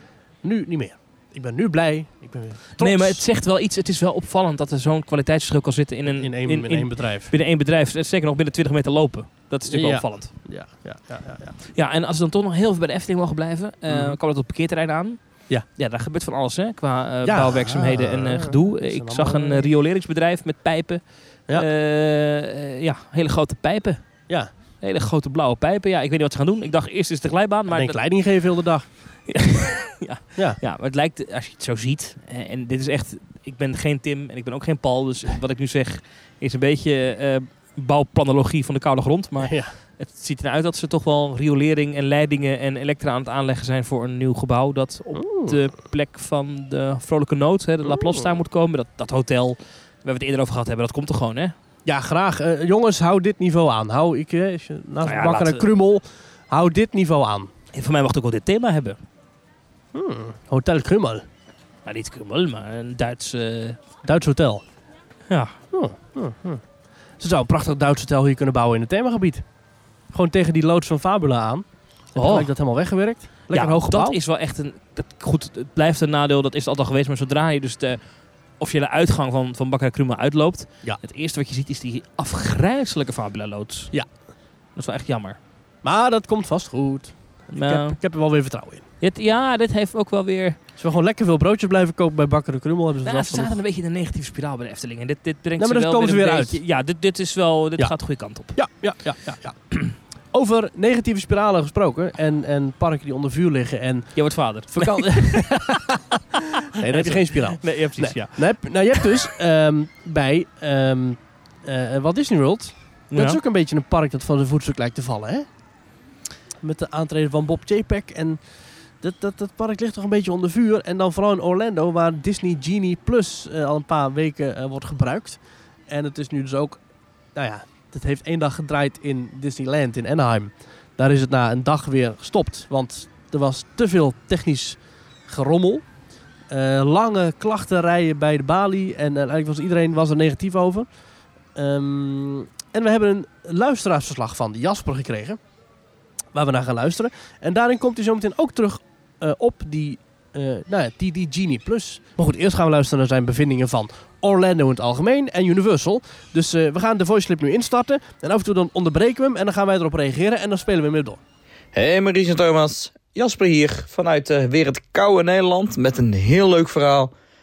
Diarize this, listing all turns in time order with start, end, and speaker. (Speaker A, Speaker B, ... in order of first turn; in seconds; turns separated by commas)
Speaker A: 0.4-3.2, Speaker B: 2.8-10.3, Speaker A: 6.2-7.3, Speaker A: 9.7-11.6, Speaker B: 11.7-24.2, Speaker A: 13.9-14.2, Speaker A: 17.2-19.7, Speaker B: 24.8-28.0, Speaker A: 27.7-28.9, Speaker B: 29.3-51.5, Speaker A: 39.4-39.7, Speaker A: 45.1-45.6, Speaker A: 47.8-48.3, Speaker A: 51.9-57.5, Speaker B: 55.0-55.7, Speaker B: 57.7-59.0, Speaker A: 59.9-61.2, Speaker B: 61.8-63.8, Speaker A: 64.0-64.6, Speaker B: 65.3-65.6, Speaker A: 65.7-66.6, Speaker A: 67.2-69.4, Speaker A: 70.1-74.2, Speaker B: 72.2-72.5, Speaker B: 73.5-78.0, Speaker B: 78.6-83.9, Speaker B: 84.8-85.4, Speaker A: 85.8-88.8, Speaker B: 87.5-88.0, Speaker B: 89.0-90.6, Speaker A: 90.8-93.6, Speaker B: 93.0-98.6, Speaker A: 95.6-96.6, Speaker A: 98.5-99.6, Speaker A: 100.3-115.5, Speaker B: 104.1-105.8, Speaker B: 106.7-108.5, Speaker B: 113.1-113.4, Speaker A: 116.6-118.4, Speaker A: 119.0-126.8, Speaker A: 127.3-135.8, Speaker A: 136.5-140.9, Speaker A: 141.5-145.4, Speaker A: 146.3-161.2, Speaker C: 161.7-167.1